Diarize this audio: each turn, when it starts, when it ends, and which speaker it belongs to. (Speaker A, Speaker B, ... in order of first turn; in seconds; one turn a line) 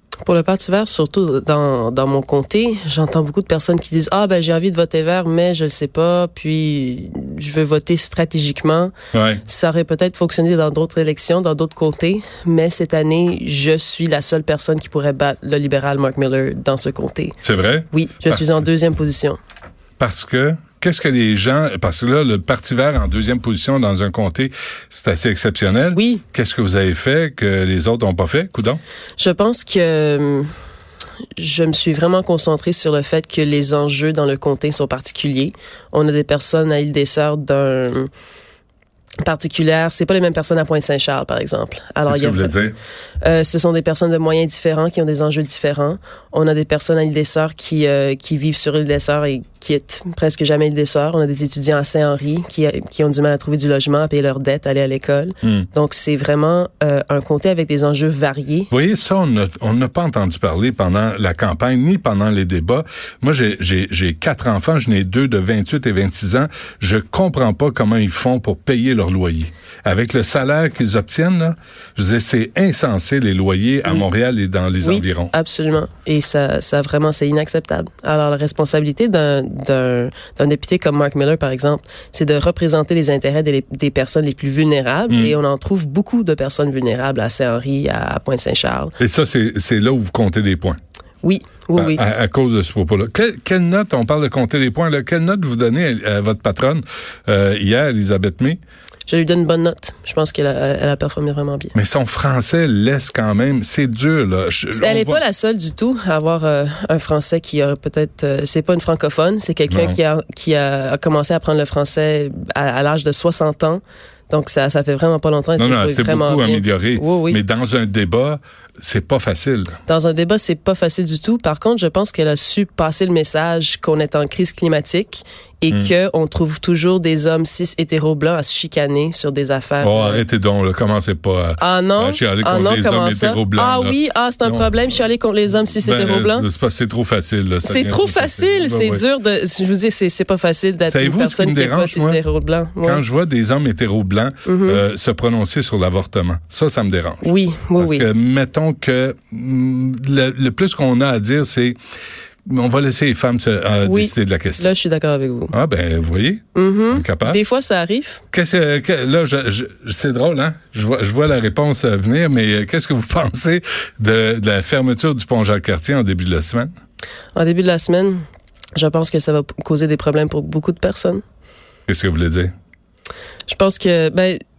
Speaker A: 0.2-8.9
Speaker B: 9.1-9.4
Speaker A: 9.4-17.4
Speaker B: 17.4-18.6
Speaker A: 17.9-19.4
Speaker B: 20.0-28.8
Speaker A: 25.9-26.2
Speaker A: 29.2-30.5
Speaker A: 31.4-38.1
Speaker A: 39.2-42.6
Speaker B: 42.1-42.8
Speaker A: 43.2-58.7
Speaker B: 58.7-75.3
Speaker A: 74.8-88.9
Speaker B: 85.1-85.3
Speaker B: 89.0-90.8
Speaker A: 91.2-92.0
Speaker B: 91.8-98.6
Speaker A: 99.1-101.7
Speaker B: 101.7-105.2
Speaker A: 104.7-117.4
Speaker B: 109.7-110.0
Speaker B: 115.6-119.8
Speaker A: 119.9-130.2
Speaker B: 129.8-134.7
Speaker A: 131.6-136.5
Speaker B: 135.8-139.0
Speaker A: 137.6-143.0
Speaker B: 140.9-142.2
Speaker B: 142.8-151.8
Speaker A: 144.4-144.8
Speaker A: 147.2-148.0
Speaker B: 152.4-154.7
Speaker A: 153.8-155.5
Speaker B: 155.5-157.4
Speaker A: 156.5-158.2
Speaker B: 158.3-166.7
Speaker A: 167.3-168.2
Speaker A: 168.8-171.2
Speaker B: 171.9-172.5
Speaker A: 173.5-174.4